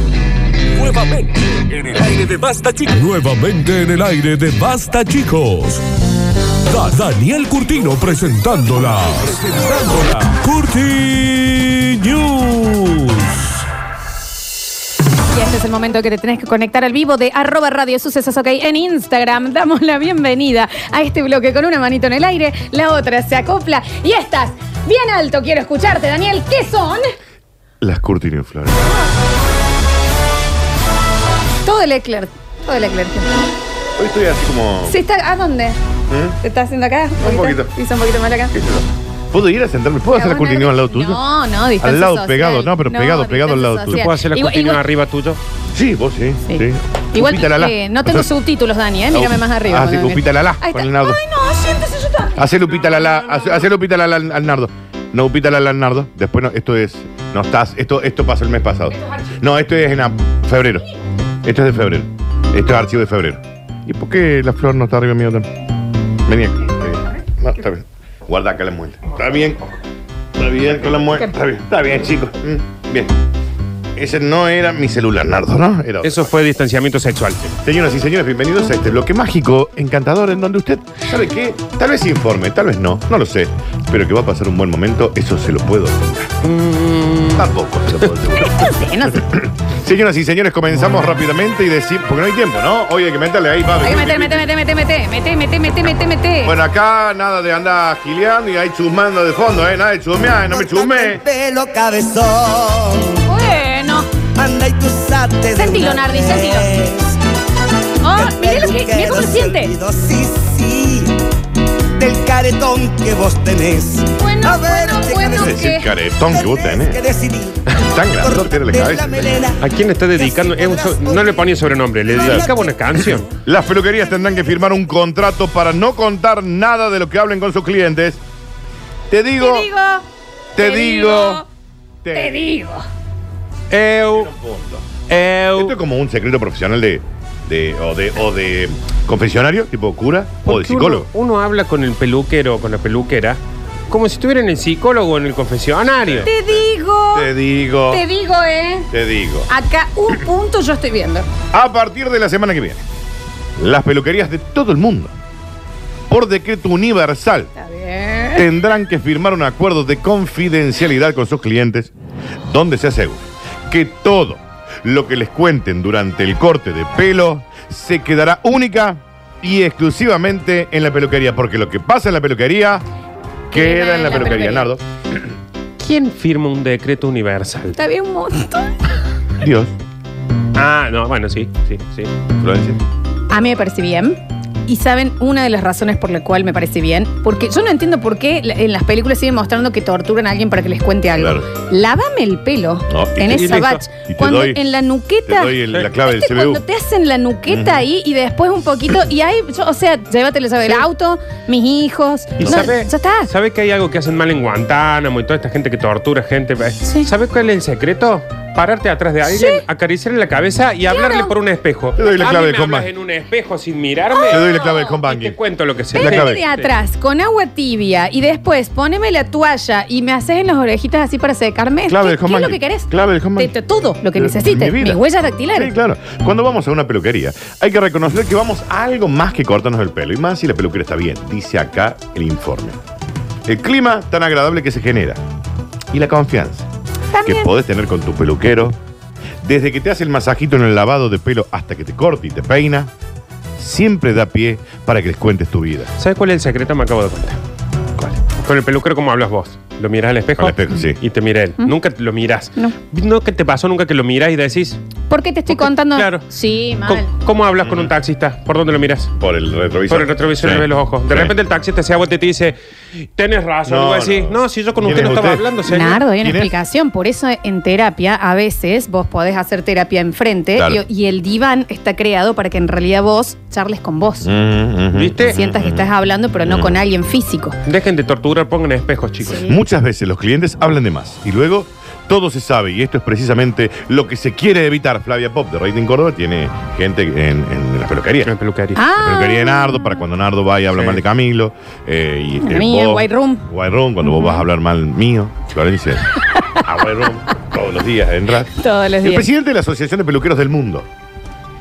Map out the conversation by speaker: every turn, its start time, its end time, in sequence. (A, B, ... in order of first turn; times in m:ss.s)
0:00.7-0:05.8 A
0:06.6-0:13.6 A
0:15.3-0:27.0 B
0:27.8-0:29.0 C
0:31.6-0:33.3 B
0:34.0-0:35.0 C
0:34.8-0:35.8 B
0:36.1-0:36.4 C
0:36.4-0:38.5 B
0:37.2-0:37.7 C
0:38.5-0:41.2 C
0:40.1-0:44.8 B
0:41.8-0:44.1 C
0:43.9-0:45.4 D
0:45.7-0:48.3 C
0:46.4-0:52.4 B
0:49.1-0:51.2 C
0:52.4-1:00.8 C
1:01.4-1:05.5 C
1:06.2-1:09.6 C
1:10.4-1:13.1 C
1:14.0-1:16.3 C
1:16.0-1:17.4 D
1:17.4-1:26.3 C
1:26.4-1:27.5 D
1:27.3-1:34.5 C
1:28.4-1:29.3 B
1:33.8-1:36.5 B
1:36.4-1:41.2 C
1:40.5-1:43.2 E
1:43.2-1:44.1 B
1:44.4-1:47.2 E
1:45.5-1:46.8 B
1:48.0-1:49.8 B
1:48.1-1:51.2 E
1:52.0-2:03.1 E
1:54.1-1:55.9 B
1:55.3-1:57.0 C
1:57.8-1:59.4 C
1:59.6-2:03.3 D
2:02.1-2:02.4 C
2:03.1-2:08.2 C
2:09.1-2:09.7 C
2:09.4-2:10.0 B
2:10.5-2:11.4 C
2:10.6-2:11.4 B
2:12.0-2:12.5 C
2:12.1-2:12.8 B
2:13.7-2:14.3 D
2:14.1-2:14.9 C
2:15.1-2:15.8 D
2:15.5-2:21.1 C
2:20.4-2:26.3 D
2:26.0-2:28.0 C
2:26.2-2:27.3 B
2:27.9-2:28.9 B
2:28.9-2:29.5 C
2:29.5-2:31.3 B
2:31.5-2:32.8 C
2:33.6-2:35.1 C
2:36.1-2:37.5 C
2:37.6-2:38.5 B
2:38.3-2:41.9 C
2:42.4-2:52.8 C
2:53.5-2:54.8 C
2:53.5-2:54.7 B
2:55.8-2:57.8 D
2:57.7-2:58.7 B
2:59.4-2:59.7 C
3:00.5-3:02.1 D
3:02.4-3:02.8 C
3:03.3-3:23.3 B
3:11.1-3:11.5 C
3:12.9-3:14.7 C
3:13.3-3:13.8 D
3:15.2-3:16.6 C
3:17.5-3:17.8 C
3:22.4-3:22.8 C
3:22.4-3:34.5 D
3:26.8-3:27.1 B
3:29.2-3:29.6 B
3:30.8-3:31.3 B
3:32.0-3:32.9 C
3:34.1-3:35.0 B
3:34.3-3:35.4 C
3:35.0-3:36.7 D
3:35.9-3:36.4 C
3:35.9-3:45.7 B
3:41.9-3:43.5 C
3:44.1-3:52.8 C
3:53.5-3:55.2 C
3:55.9-3:56.7 C
3:57.1-3:57.5 B
3:57.2-3:58.8 C
3:59.4-4:02.9 C
4:03.6-4:05.9 C
4:06.0-4:07.4 D
4:08.4-4:14.8 D
4:10.4-4:11.0 C
4:15.1-4:17.1 B
4:15.5-4:16.2 D
4:16.8-4:19.1 D
4:17.6-4:17.9 C
4:19.2-4:21.3 C
4:19.9-4:22.6 D
4:23.2-4:26.0 D
4:23.6-4:25.5 C
4:25.6-4:34.3 B
4:26.2-4:26.5 C
4:30.6-4:30.8 C
4:34.2-4:35.9 C
4:34.9-4:35.4 D
4:35.3-4:37.6 B
4:36.4-4:36.8 C
4:37.6-4:39.4 D
4:39.2-4:39.6 B
4:39.4-4:48.3 C
4:48.2-4:48.8 D
4:48.8-4:50.0 B
4:49.0-4:56.0 C
4:50.7-4:51.0 D
4:52.4-4:53.5 B
4:54.0-4:54.4 B
4:56.2-4:56.7 B
4:56.6-5:00.9 C
4:58.5-4:59.3 B